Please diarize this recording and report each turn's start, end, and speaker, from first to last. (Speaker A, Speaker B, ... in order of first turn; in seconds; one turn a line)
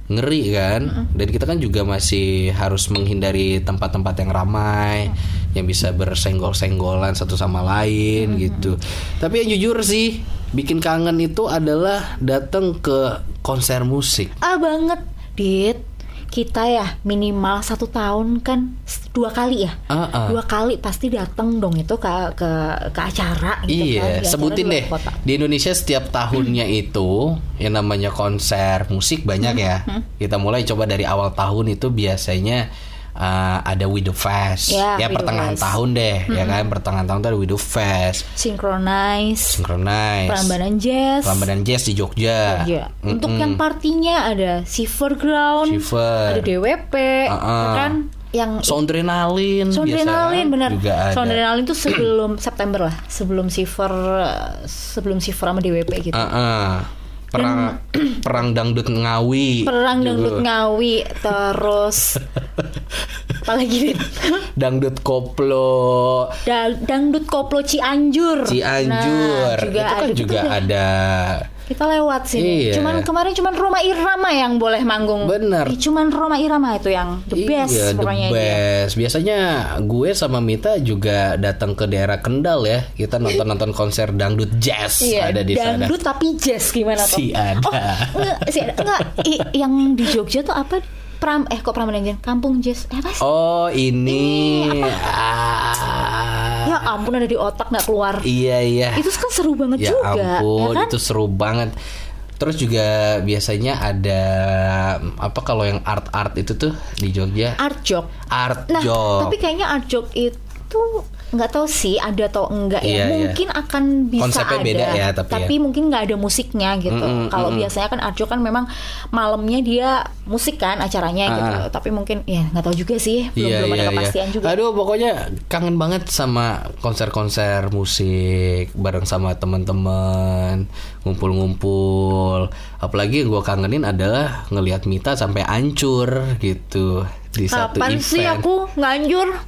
Speaker A: 0.1-14.3
Speaker B: 8.3-8.6
Speaker B: 14.4-25.2
Speaker A: 19.9-20.4
Speaker A: 23.7-38.3
Speaker B: 29.4-30.1
Speaker B: 34.7-36.7
Speaker B: 38.4-39.6
Speaker A: 39.5-40.6
Speaker B: 40.3-41.5
Speaker A: 41.2-43.6
Speaker B: 42.5-48.8
Speaker A: 45.6-46.5
Speaker A: 47.3-48.0
Speaker A: 48.6-51.4
Speaker B: 49.7-56.3
Speaker A: 56.1-60.5
Speaker B: 57.4-58.3
Speaker B: 59.6-62.2
Speaker B: 63.5-64.5
Speaker A: 64.6-66.4
Speaker B: 66.5-70.7
Speaker A: 68.5-71.5
Speaker B: 71.7-78.6
Speaker A: 72.4-73.1
Speaker A: 75.2-75.8
Speaker A: 77.3-85.9
Speaker B: 85.0-93.2
Speaker A: 87.0-89.3
Speaker A: 93.2-96.9
Speaker B: 94.1-95.0
Speaker B: 96.6-98.3
Speaker A: 98.2-99.1
Speaker B: 99.0-100.9
Speaker A: 99.8-101.7
Speaker A: 102.4-107.6
Speaker B: 107.6-108.1
Speaker A: 108.3-109.4
Speaker B: 108.7-124.6
Speaker A: 112.8-113.4
Speaker A: 114.2-115.5
Speaker A: 116.9-117.7
Speaker A: 121.3-121.7
Speaker A: 123.4-138.4
Speaker B: 137.5-139.4